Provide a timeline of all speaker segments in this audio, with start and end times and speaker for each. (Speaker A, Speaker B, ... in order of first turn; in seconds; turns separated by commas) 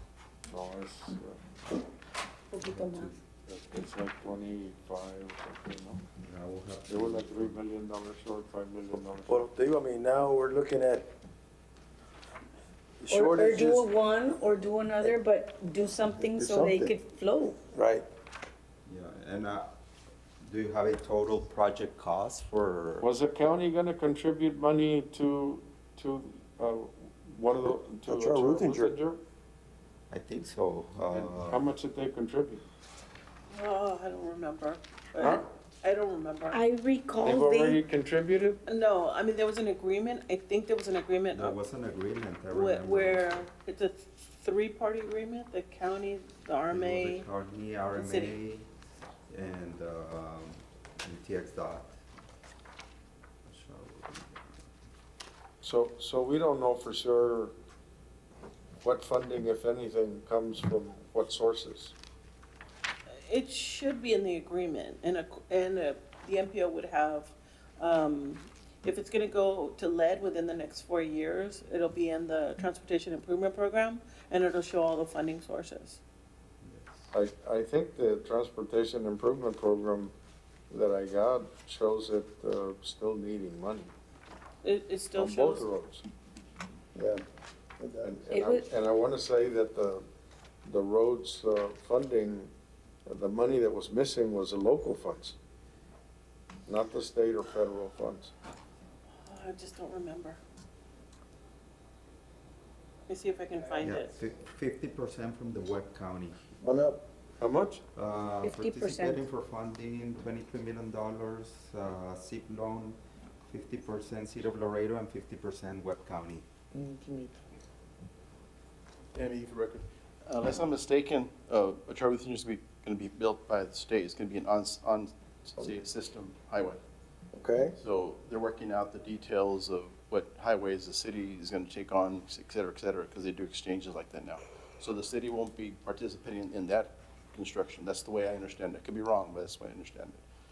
Speaker A: 0.5-1.4, Speaker B: 2.5-3.1, Speaker C: 2.6-3.1, Speaker A: 3.5-6.0, Speaker C: 6.2-7.6, Speaker A: 6.9-9.5, Speaker D: 9.3-11.1, Speaker D: 13.0-13.9, Speaker B: 13.1-17.6, Speaker D: 16.2-16.9, Speaker D: 17.7-18.1, Speaker C: 18.9-19.7, Speaker C: 20.4-23.1, Speaker A: 23.0-29.2, Speaker D: 28.1-28.9, Speaker C: 30.1-31.7, Speaker A: 31.1-32.6, Speaker E: 33.5-36.6, Speaker A: 35.2-35.5, Speaker B: 36.5-37.8, Speaker A: 37.2-38.6, Speaker E: 38.7-41.6, Speaker C: 41.3-43.4, Speaker E: 42.5-47.3, Speaker C: 46.7-48.7, Speaker E: 47.9-48.4, Speaker C: 49.3-52.0, Speaker C: 53.5-54.6, Speaker A: 55.6-57.5, Speaker A: 58.8-62.0, Speaker E: 63.3-76.0, Speaker C: 76.6-77.0, Speaker A: 77.1-80.1, Speaker A: 80.7-83.9, Speaker E: 84.6-85.6, Speaker A: 85.2-86.0, Speaker D: 87.0-87.2, Speaker D: 87.8-88.1, Speaker A: 88.0-90.0, Speaker B: 88.3-88.6, Speaker A: 90.7-92.5, Speaker A: 93.1-95.4, Speaker A: 96.7-98.3, Speaker E: 99.2-100.4, Speaker E: 103.1-104.1, Speaker C: 103.8-106.5, Speaker D: 106.6-107.1, Speaker A: 107.4-107.8, Speaker C: 107.9-116.5, Speaker B: 108.4-109.2, Speaker A: 116.8-117.3, Speaker F: 119.1-126.8, Speaker D: 127.3-127.8, Speaker F: 127.8-140.2